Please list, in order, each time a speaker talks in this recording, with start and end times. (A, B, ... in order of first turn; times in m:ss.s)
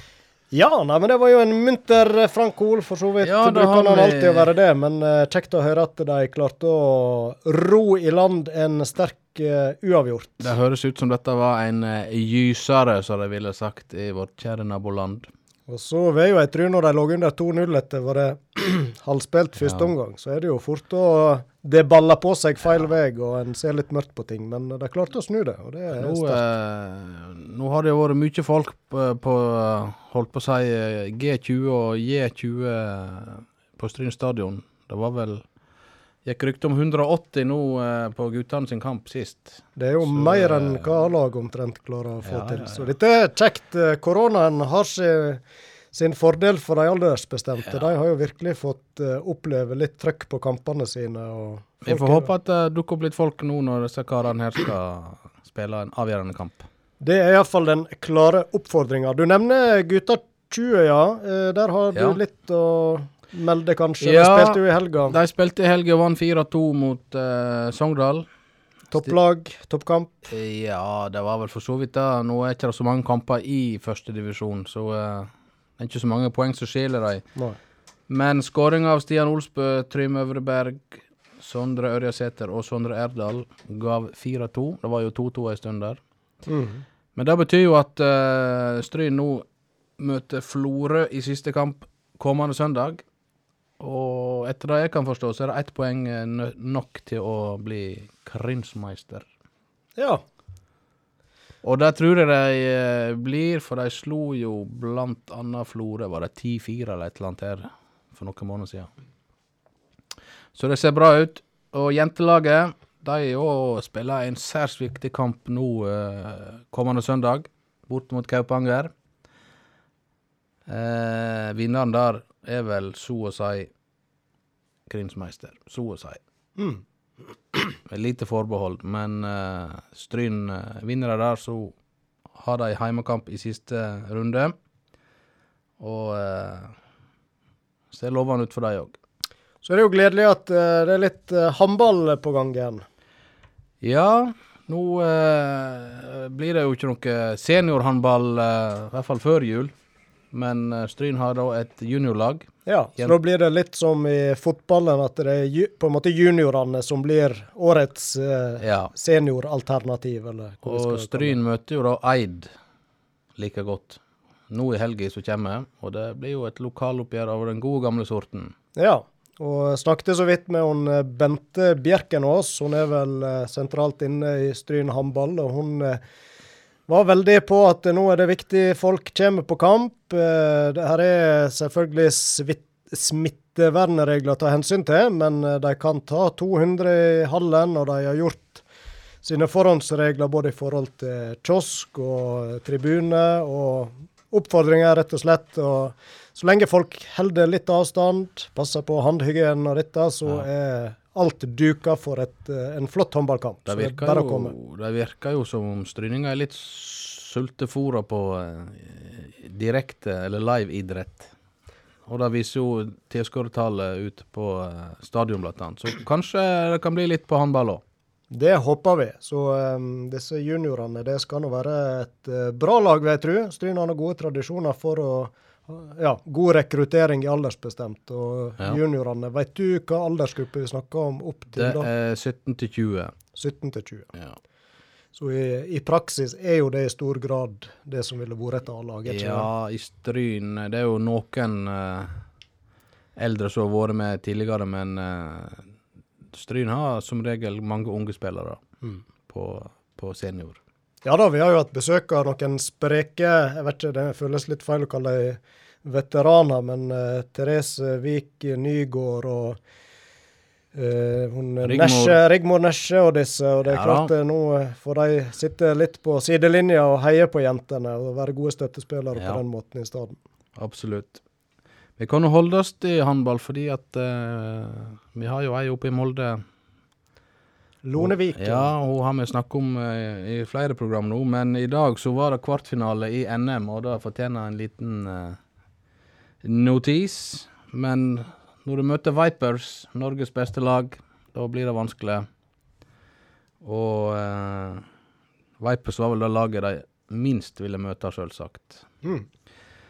0:00.5-0:10.5 A
0:03.2-0:04.5 B
0:10.4-0:15.3 B
0:15.7-0:26.4 A
0:19.6-0:19.9 B
0:25.9-0:35.4 B
0:36.2-0:41.0 B
0:39.8-0:45.4 A
0:42.2-0:42.9 B
0:45.9-0:52.3 A
0:51.8-0:56.7 B
0:57.0-1:05.2 A
1:01.9-1:02.2 B
1:04.0-1:08.3 B
1:08.9-1:10.1 A
1:10.3-1:17.2 B
1:18.1-1:26.0 B
1:26.5-1:26.8 A
1:27.2-1:29.5 B
1:30.0-1:33.0 B
1:33.8-1:39.3 B
1:40.0-1:40.2 A
1:41.6-1:48.9 B
1:50.6-1:58.9 B
2:00.7-2:03.7 B
2:04.9-2:06.2 B
2:06.6-2:06.8 A
2:07.9-2:11.8 B
2:12.4-2:14.6 B
2:15.8-2:16.7 B
2:17.9-2:19.0 B
2:19.6-2:22.8 A
2:23.8-2:29.7 B
2:30.3-2:33.2 B
2:32.6-2:41.4 A
2:38.6-2:38.9 B
2:40.6-2:42.5 B
2:43.4-2:48.5 B
2:48.8-2:56.0 A
2:56.9-3:08.6 A
3:09.2-3:24.5 A
3:23.7-3:31.3 B
3:32.1-3:37.8 B
3:38.3-3:51.9 A
3:51.6-3:53.2 B
3:53.4-3:54.1 A
3:55.1-3:59.5 A
3:59.1-4:02.1 B
4:03.2-4:05.7 B
4:06.3-4:08.6 B
4:09.3-4:10.6 B
4:11.0-4:19.6 A
4:20.7-4:30.2 A
4:21.6-4:22.2 B
4:23.6-4:24.1 B
4:29.2-4:29.4 B
4:30.6-4:31.2 B
4:32.0-4:36.4 B
4:37.8-4:38.7 A
4:38.0-4:45.4 B
4:46.4-4:52.3 B
4:53.6-4:54.8 B
4:55.6-4:58.9 B